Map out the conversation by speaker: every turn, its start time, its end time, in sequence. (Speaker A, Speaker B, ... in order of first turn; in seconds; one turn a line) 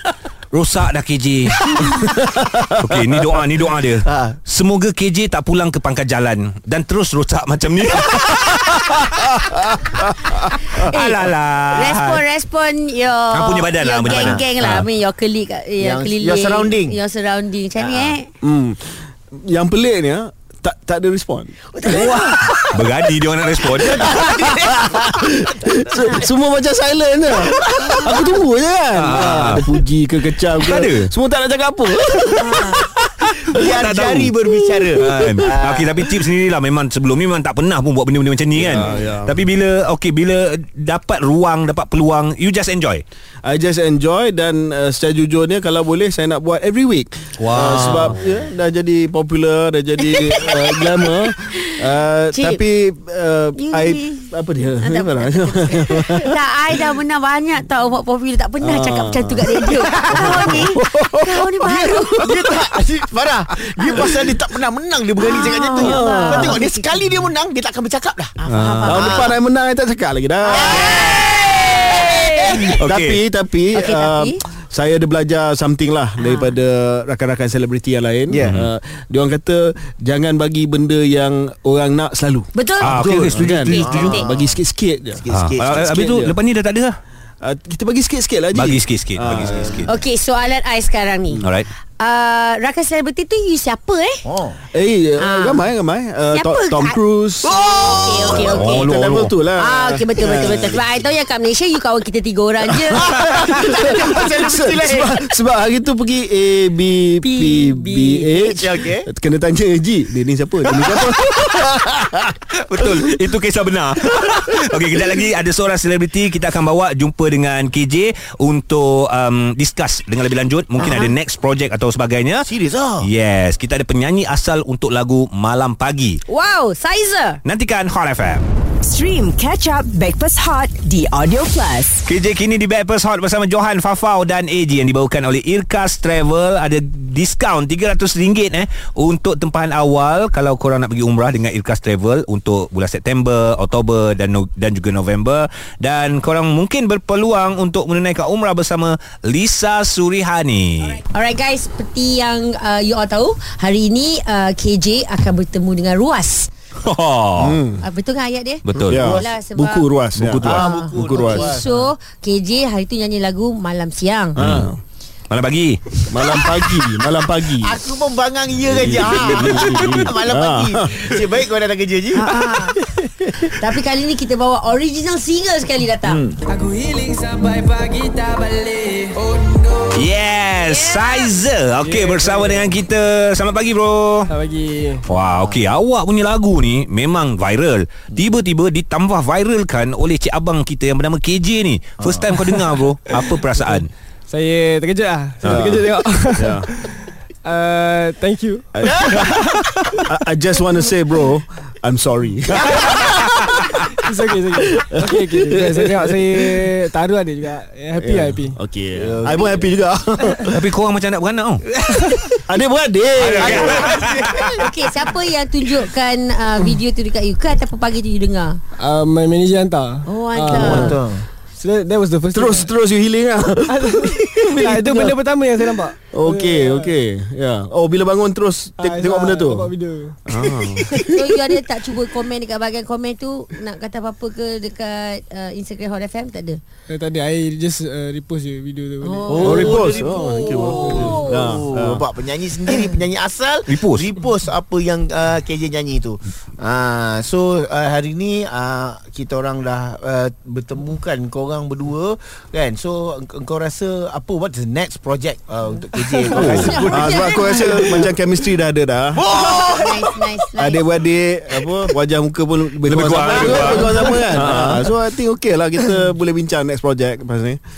Speaker A: 0.5-2.0
Speaker B: 1.8-2.7
Speaker A: 2.8-9.8
Speaker B: 4.0-4.4
Speaker C: 9.9-10.7
Speaker A: 10.4-12.2
Speaker D: 10.7-18.3
Speaker A: 13.3-14.9
Speaker B: 14.1-14.4
Speaker B: 15.8-17.0
Speaker B: 17.8-18.1
Speaker C: 18.4-21.9
Speaker D: 21.7-22.7
Speaker A: 21.9-24.3
Speaker B: 23.8-25.2
Speaker C: 24.0-33.6
Speaker D: 27.8-28.4
Speaker A: 28.9-29.6
Speaker A: 30.4-31.1
Speaker D: 32.4-32.8
Speaker B: 33.5-36.1
Speaker A: 33.6-34.3
Speaker C: 34.5-35.5
Speaker A: 35.0-43.0
Speaker C: 38.5-39.5
Speaker C: 43.4-56.4
Speaker A: 47.4-48.2
Speaker D: 50.0-51.8
Speaker D: 52.3-52.6
Speaker D: 53.6-62.6
Speaker C: 58.6-61.5
Speaker B: 60.0-60.6
Speaker B: 61.6-68.3
Speaker D: 63.8-64.1
Speaker C: 63.9-64.3
Speaker D: 65.2-66.9
Speaker C: 65.7-66.6
Speaker D: 68.4-69.3
Speaker A: 68.5-68.9
Speaker C: 68.8-71.2
Speaker B: 68.9-69.3
Speaker D: 70.5-72.7
Speaker B: 70.5-72.7
Speaker A: 72.5-73.2
Speaker C: 72.8-86.4
Speaker D: 73.7-74.4
Speaker D: 76.2-76.5
Speaker B: 78.3-78.6
Speaker D: 82.5-84.3
Speaker A: 82.8-84.1
Speaker B: 83.7-84.6
Speaker B: 85.2-85.9
Speaker A: 85.3-87.0
Speaker C: 87.4-89.9
Speaker A: 88.5-90.0
Speaker B: 89.4-89.8
Speaker D: 89.9-91.4
Speaker A: 91.4-91.7
Speaker D: 92.0-94.2
Speaker B: 94.2-94.6
Speaker C: 94.7-100.8
Speaker D: 95.2-95.7
Speaker D: 96.3-98.9
Speaker B: 97.4-98.5
Speaker A: 98.3-99.3
Speaker D: 99.6-103.3
Speaker B: 100.3-100.7
Speaker C: 102.7-113.1
Speaker B: 102.8-105.1
Speaker D: 107.2-108.5
Speaker B: 108.3-109.1
Speaker A: 112.5-126.2
Speaker B: 120.8-121.1
Speaker D: 120.8-121.1
Speaker B: 122.4-123.1
Speaker D: 126.3-127.4
Speaker A: 127.5-128.5
Speaker E: 128.8-132.1
Speaker A: 132.1-151.0
Speaker D: 151.0-156.5
Speaker A: 156.8-157.6
Speaker C: 157.4-157.8
Speaker D: 157.8-159.9
Speaker A: 158.7-159.1
Speaker C: 158.9-161.6
Speaker B: 159.0-159.2
Speaker B: 160.2-161.9
Speaker D: 160.6-164.4
Speaker A: 164.4-164.7
Speaker C: 164.4-164.8
Speaker A: 165.3-166.0
Speaker C: 166.1-167.8
Speaker B: 167.6-172.3
Speaker C: 168.7-171.1
Speaker A: 169.0-170.1
Speaker D: 172.1-172.8
Speaker D: 173.4-176.2
Speaker B: 176.1-176.4
Speaker F: 176.5-180.1
Speaker A: 179.9-184.3
Speaker D: 180.6-181.3
Speaker F: 181.8-182.7
Speaker F: 184.3-185.1
Speaker A: 185.1-193.9
Speaker B: 185.3-185.7
Speaker B: 192.0-192.3
Speaker F: 194.3-200.0
Speaker C: 195.4-196.7
Speaker C: 198.8-199.1
Speaker B: 198.8-199.3
Speaker C: 199.8-203.8
Speaker F: 203.9-208.6
Speaker C: 204.6-206.7
Speaker C: 208.0-210.6
Speaker B: 208.9-209.7
Speaker A: 210.5-211.6
Speaker F: 211.8-212.3
Speaker C: 212.3-214.1
Speaker A: 213.2-214.5
Speaker B: 213.3-214.7
Speaker D: 213.7-218.6
Speaker F: 218.8-221.0
Speaker D: 220.1-221.0
Speaker B: 220.5-221.3
Speaker C: 220.6-220.9
Speaker F: 221.6-222.7
Speaker C: 222.3-225.2
Speaker F: 223.7-226.9
Speaker C: 226.1-229.7
Speaker F: 228.8-230.2
Speaker C: 230.3-231.4
Speaker A: 230.3-230.8
Speaker D: 231.0-236.6
Speaker F: 236.9-239.7
Speaker D: 239.0-241.6
Speaker B: 239.3-258.1
Speaker C: 239.4-242.0
Speaker A: 243.7-244.1
Speaker A: 256.3-256.7
Speaker D: 256.4-258.0
Speaker C: 256.7-259.2
Speaker B: 259.2-260.2
Speaker D: 259.3-260.9
Speaker C: 260.6-267.6
Speaker A: 262.9-264.9
Speaker B: 263.5-264.1